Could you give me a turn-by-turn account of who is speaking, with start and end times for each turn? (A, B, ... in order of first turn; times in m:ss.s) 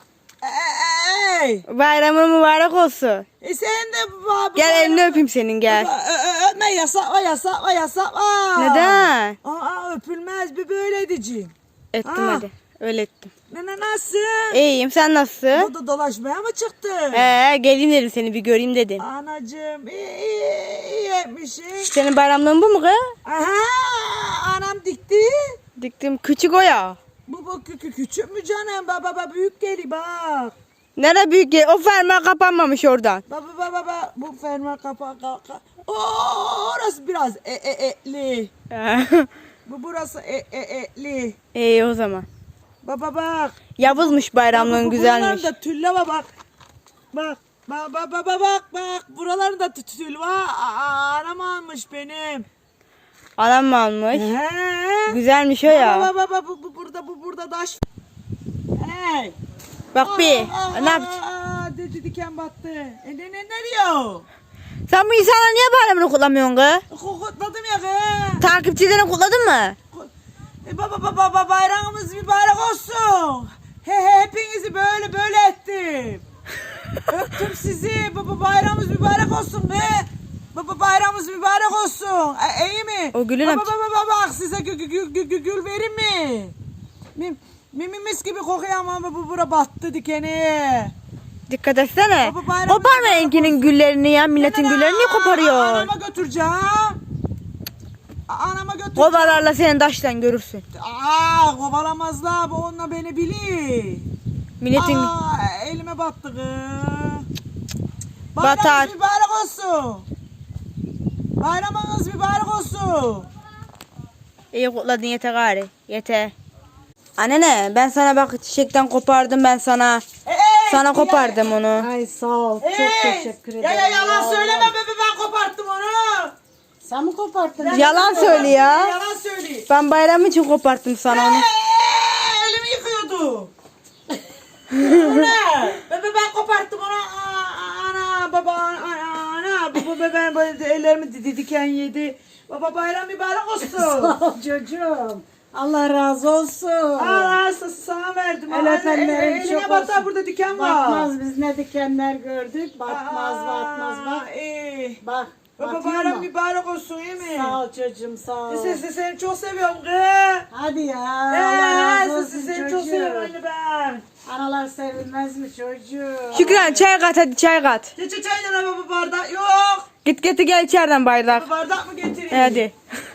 0:00.4-0:01.6 A
0:01.7-0:03.2 B
0:03.4-0:11.5 A
0:04.6-0:05.9 B
0:08.6-0:09.4 B
0:11.9-0:13.3 B
0:12.0-0:12.5 A
0:13.5-0:14.6 A
0:14.5-0:15.7 B
0:15.5-0:17.3 A
0:17.1-0:19.0 B
0:19.0-0:22.0 A
0:21.8-0:23.1 B
0:23.2-0:25.6 A
0:25.8-0:27.0 B
0:27.3-0:30.5 A
0:31.0-0:33.2 B
0:33.3-0:38.5 A
0:38.7-0:39.3 B
0:39.7-0:41.4 A
0:41.5-0:42.3 B
0:42.8-0:46.3 A
0:43.8-0:45.5 B
0:47.1-0:52.5 A
0:53.4-0:54.3 B
0:54.1-0:57.8 A
0:55.1-0:56.1 B
0:58.8-0:59.4 A
0:59.9-1:01.2 B
1:00.0-1:04.3 A
1:04.9-1:06.8 B
1:06.9-1:08.4 A
1:08.4-1:09.8 B
1:10.6-1:16.2 A
1:17.1-1:26.6 A
1:23.1-1:23.7 B
1:27.2-1:30.9 A
1:31.5-1:35.9 B
1:32.2-1:33.7 A
1:34.4-1:37.0 A
1:38.3-1:39.5 A
1:39.0-1:40.6 B
1:40.7-1:44.1 A
1:44.6-1:45.1 B
1:44.7-1:47.3 A
1:48.4-1:50.1 A
1:48.4-1:48.9 B
1:51.4-1:53.3 A
1:54.5-1:56.3 B
1:57.2-2:00.0 B
2:00.2-2:01.4 A
2:00.7-2:01.9 B
2:01.8-2:04.7 C
2:02.6-2:06.4 A
2:06.8-2:08.6 C
2:07.6-2:09.7 A
2:07.7-2:08.9 B
2:09.7-2:11.4 B
2:11.1-2:13.5 A
2:14.7-2:24.2 A
2:14.8-2:15.2 B
2:23.6-2:27.4 C
2:27.0-2:31.1 A
2:28.5-2:34.3 C
2:32.9-2:35.0 A
2:35.0-2:36.3 C
2:35.6-2:37.6 A
2:37.2-2:38.8 C
2:38.5-2:40.5 A
2:40.5-2:43.3 C
2:41.3-2:44.0 A
2:44.3-2:46.9 C
2:46.3-2:47.9 B
2:48.0-2:49.9 A
2:50.0-2:51.5 B
2:51.3-2:52.6 A
2:52.3-2:52.7 B